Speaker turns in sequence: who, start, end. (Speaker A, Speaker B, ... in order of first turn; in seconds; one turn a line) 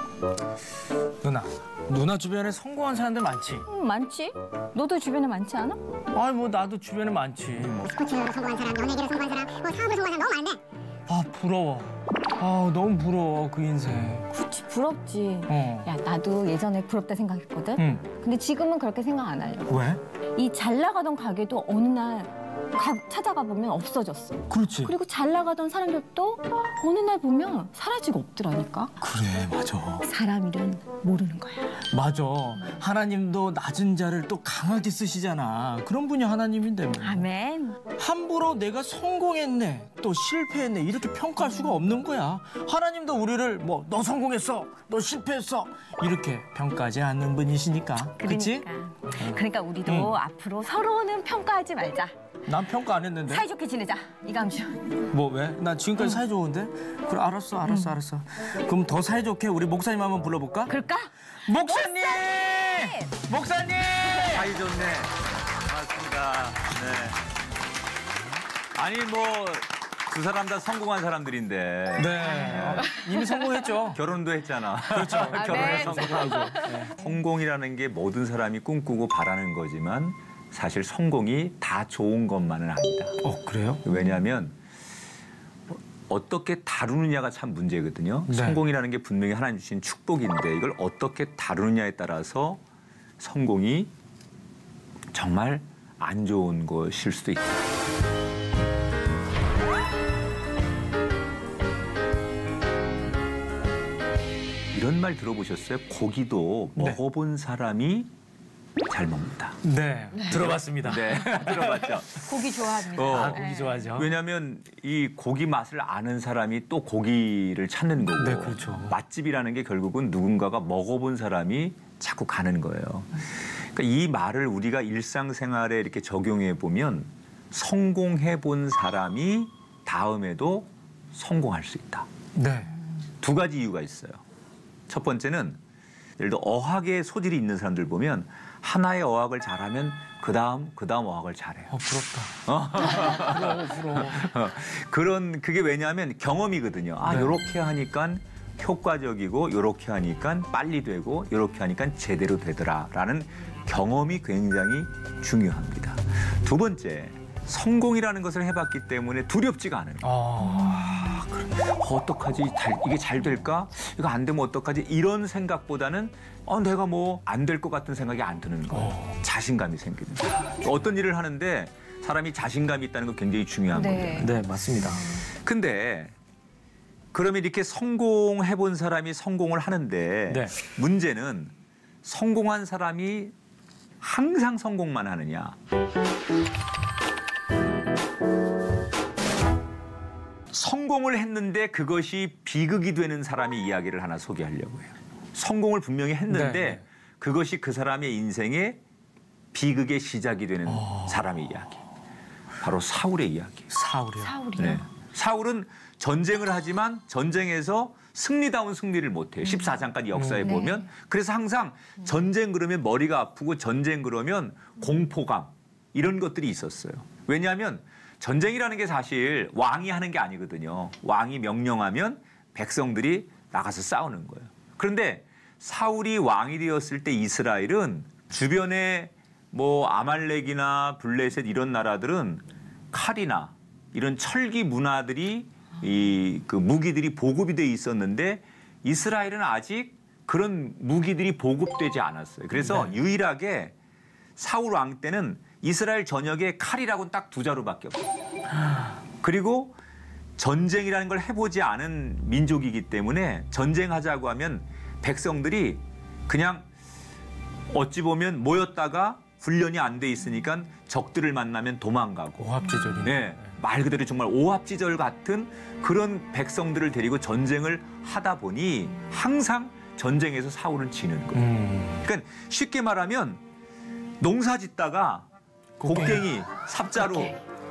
Speaker A: 1.2-3.7
Speaker B: 3.7-5.8
Speaker A: 6.1-7.9
Speaker C: 7.8-10.6
Speaker A: 11.1-14.3
Speaker B: 14.3-19.8
Speaker A: 15.5-15.9
Speaker A: 17.8-18.1
Speaker A: 19.7-20.0
Speaker B: 20.4-28.9
Speaker A: 24.5-25.0
Speaker A: 29.0-30.1
Speaker B: 30.0-31.9
Speaker A: 31.9-37.2
Speaker B: 37.0-37.8
Speaker A: 38.0-50.2
Speaker B: 48.2-52.2
Speaker A: 52.5-53.5
Speaker B: 53.3-55.1
Speaker A: 55.1-60.8
Speaker B: 57.7-58.0
Speaker B: 60.7-61.1
Speaker A: 61.4-64.5
Speaker B: 61.7-63.1
Speaker D: 64.2-67.2
Speaker D: 68.8-72.9
Speaker A: 72.0-74.0
Speaker B: 72.2-73.5
Speaker D: 73.9-83.2
Speaker A: 74.9-77.0
Speaker B: 75.3-77.1
Speaker A: 83.2-83.8
Speaker D: 83.8-84.6
Speaker D: 85.7-92.6
Speaker A: 88.3-88.6
Speaker D: 93.2-93.9
Speaker D: 95.1-97.6
Speaker D: 104.7-108.1
Speaker D: 108.9-109.6
Speaker A: 109.6-112.0
Speaker D: 110.3-112.3
Speaker B: 112.2-113.9
Speaker D: 112.9-132.1
Speaker A: 113.0-114.1
Speaker A: 118.2-119.0
Speaker A: 132.3-132.7
Speaker D: 133.2-134.2
Speaker D: 134.9-135.6
Speaker D: 136.2-141.8
Speaker A: 141.7-144.3
Speaker D: 142.4-160.2
Speaker A: 147.1-147.4
Speaker A: 160.0-161.5
Speaker D: 161.2-174.3
Speaker A: 168.7-169.1
Speaker B: 173.7-175.2
Speaker A: 174.2-175.1
Speaker D: 175.4-176.1
Speaker D: 177.1-181.5
Speaker A: 180.3-180.5
Speaker D: 182.0-183.3
Speaker D: 184.0-185.6
Speaker D: 190.5-198.8
Speaker A: 196.3-196.8
Speaker D: 199.5-201.8
Speaker A: 200.7-201.2
Speaker D: 202.6-203.7
Speaker A: 203.7-204.4
Speaker B: 204.2-204.8
Speaker D: 204.6-243.7
Speaker A: 210.1-210.5
Speaker B: 210.4-210.9
Speaker A: 242.6-242.9
Speaker D: 244.4-248.1
Speaker D: 249.2-249.8
Speaker D: 250.4-256.7
Speaker D: 257.7-273.4
Speaker A: 262.4-263.5
Speaker A: 271.3-272.0
Speaker D: 274.2-275.3
Speaker A: 275.8-276.3
Speaker D: 275.8-277.4